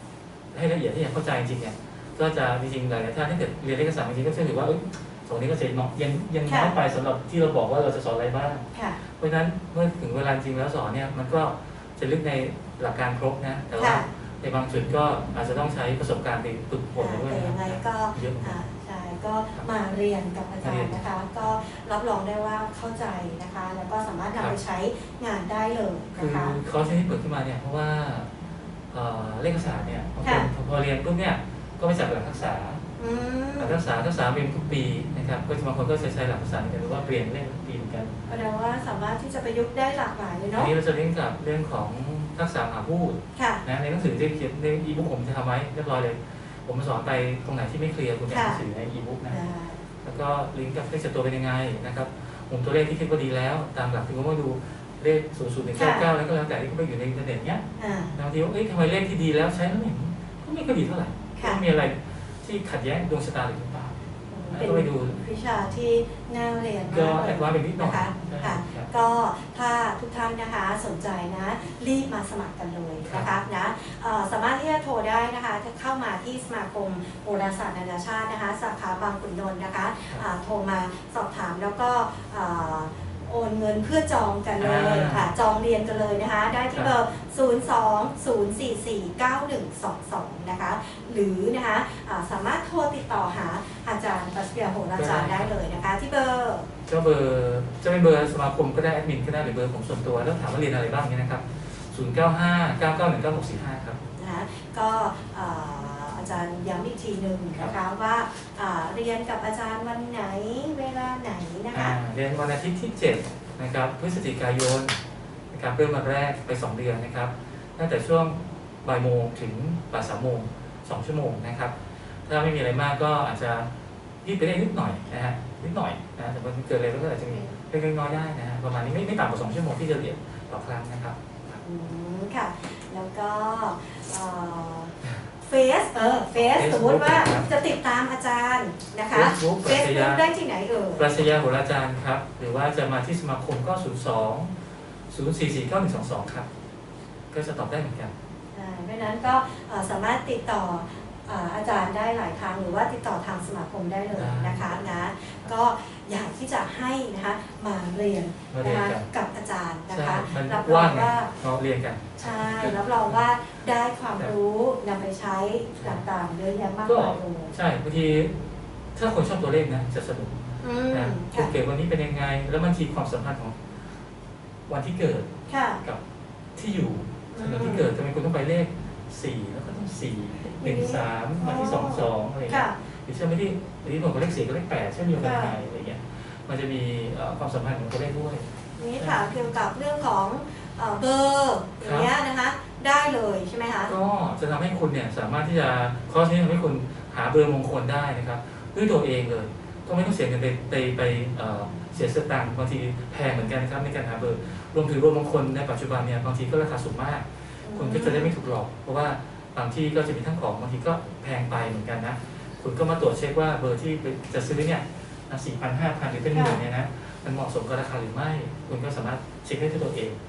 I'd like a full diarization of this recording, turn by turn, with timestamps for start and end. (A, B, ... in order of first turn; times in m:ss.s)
0:00.5-0:18.6 A
0:06.5-0:06.7 B
0:08.7-0:09.0 B
0:13.8-0:14.1 B
0:17.0-0:26.6 B
0:20.6-0:21.0 A
0:26.2-0:28.3 A
0:28.9-0:32.8 A
0:30.2-0:30.5 B
0:33.0-0:33.8 B
0:33.6-0:38.1 A
0:38.3-0:40.7 B
0:40.6-0:49.4 A
0:43.4-0:43.6 B
0:48.3-0:48.6 B
0:49.3-0:49.8 B
0:50.0-0:57.6 A
0:55.8-0:56.1 B
0:57.8-0:58.2 B
0:58.2-1:04.0 A
1:04.3-1:36.7 B
1:04.5-1:05.2 A
1:06.9-1:08.9 A
1:24.6-1:25.3 A
1:35.0-1:35.5 A
1:36.9-1:44.0 A
1:44.2-1:52.0 B
1:51.7-1:55.0 A
1:55.5-2:03.7 A
2:04.2-2:11.6 A
2:07.3-2:07.5 B
2:11.6-2:21.1 B
2:16.4-2:17.5 A
2:19.1-2:20.2 A
2:21.0-2:24.5 A
2:25.1-2:26.5 A
2:27.3-2:28.1 A
2:28.5-2:41.3 B
2:34.1-2:35.5 A
2:38.5-2:39.1 A
2:39.9-2:43.2 A
2:42.2-2:47.6 B
2:46.9-2:48.3 A
2:49.0-2:53.6 A
2:50.6-2:51.5 B
2:54.7-2:55.3 A
2:55.5-2:55.8 B
2:56.6-3:08.4 A
2:57.3-2:57.9 B
3:00.6-3:02.7 B
3:05.1-3:05.6 B
3:08.8-3:13.9 B
3:11.8-3:12.1 A
3:13.9-3:40.2 A
3:27.6-3:28.3 B
3:36.3-3:36.6 B